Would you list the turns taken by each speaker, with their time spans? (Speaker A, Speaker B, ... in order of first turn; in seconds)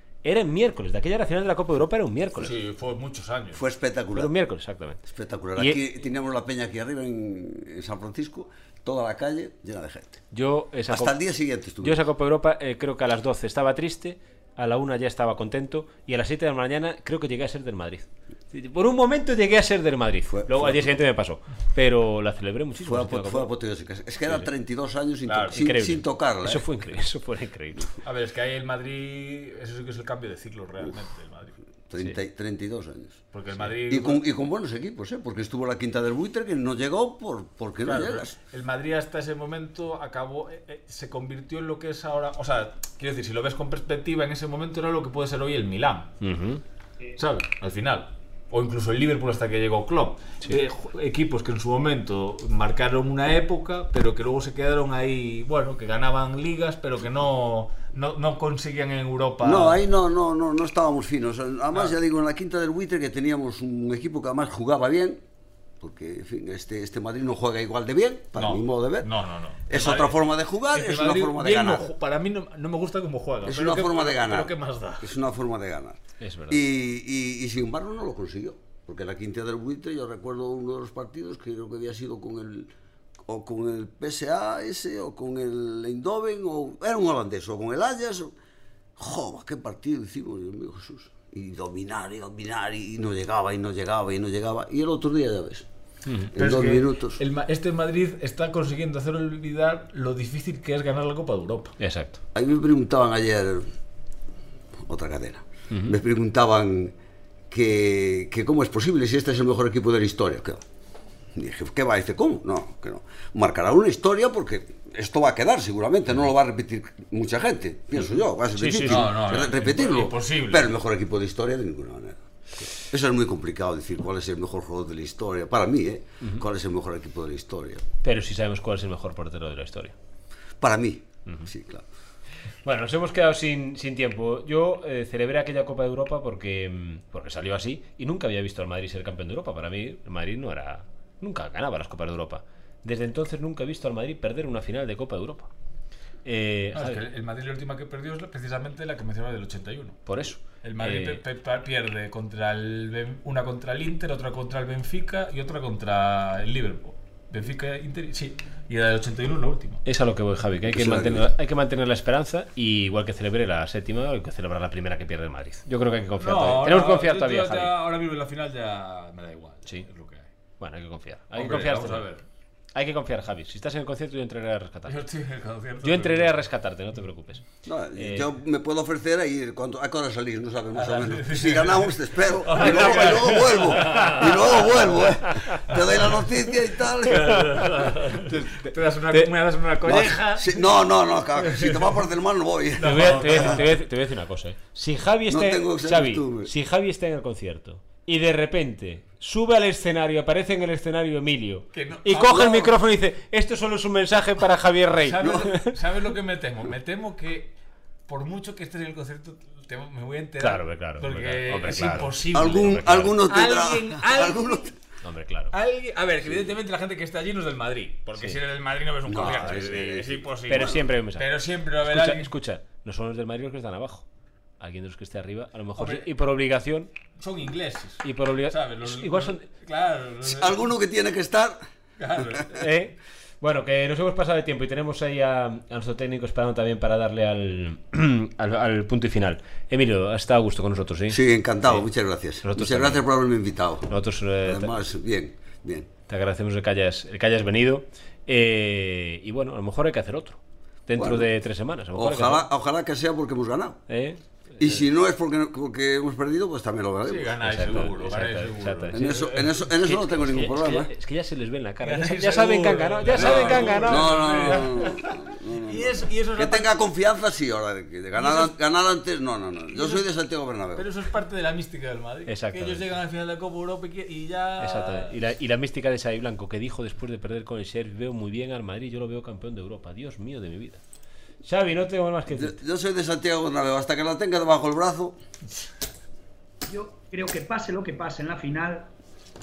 Speaker A: 0.2-2.5, 4.1-5.0, 10.3-11.2, 11.8-23.5, 25.5-27.9, 46.2-46.6, 76.2-76.6, 96.0-96.3, 101.8-102.2, 105.7-106.0, 118.5-119.2, 128.0-129.9, 132.6-145.5, 146.2-147.0, 150.1-151.2, 159.8-167.7, 170.6-172.1, 172.7-175.0, 175.8-178.3, 182.5-184.4, 188.1-189.3, 192.8-205.8, 210.4-213.1, 215.0-215.5, 220.5-221.3, 221.8-224.1, 224.6-226.9, 228.0-229.4, 232.5-241.8, 242.4-243.1, 243.9-244.7, 246.1-252.4, 253.9-254.2, 257.4-264.7, 272.3-272.9, 274.6-280.8, 281.4-282.6
Speaker B: 2.4-3.6, 25.2-25.6, 28.0-31.6, 33.3-34.2, 37.8-46.1, 47.1-59.8, 68.3-70.2, 70.7-75.2, 96.3-101.8, 118.8-120.7, 146.7-150.0, 150.6-159.8, 166.2-170.3, 171.3-172.2, 174.9-176.3, 180.7-185.1, 185.7-186.2, 186.9-190.8, 191.4-192.0, 192.8-193.6, 201.7-202.6, 205.0-207.5, 208.1-214.7, 215.5-222.3, 225.8-226.1, 227.2-230.7, 232.0-232.6, 257.0-259.5, 261.8-265.0, 265.5-266.7, 268.1-268.5, 269.7-270.0, 270.7-275.2
Speaker C: 3.5-4.3, 5.1-10.2, 10.9-12.0, 20.3-20.9, 22.8-26.7, 31.9-33.2, 33.9-38.3, 59.4-65.2, 65.8-69.1, 69.7-71.9, 73.4-82.7, 83.2-88.3, 89.0-95.7, 96.3-97.2, 102.3-103.7, 104.8-106.9, 107.5-110.6, 111.3-127.8, 130.6-131.8, 160.7-161.2, 177.6-187.6, 189.8-193.6, 195.3-196.5, 202.2-202.7, 212.3-214.7, 219.1-220.7, 230.2-231.6, 241.1-243.9, 244.4-245.9, 251.0-251.3, 251.9-253.8, 254.6-257.4, 258.9-260.9, 263.1-270.9, 282.3-285.2
Speaker D: 286.6-288.9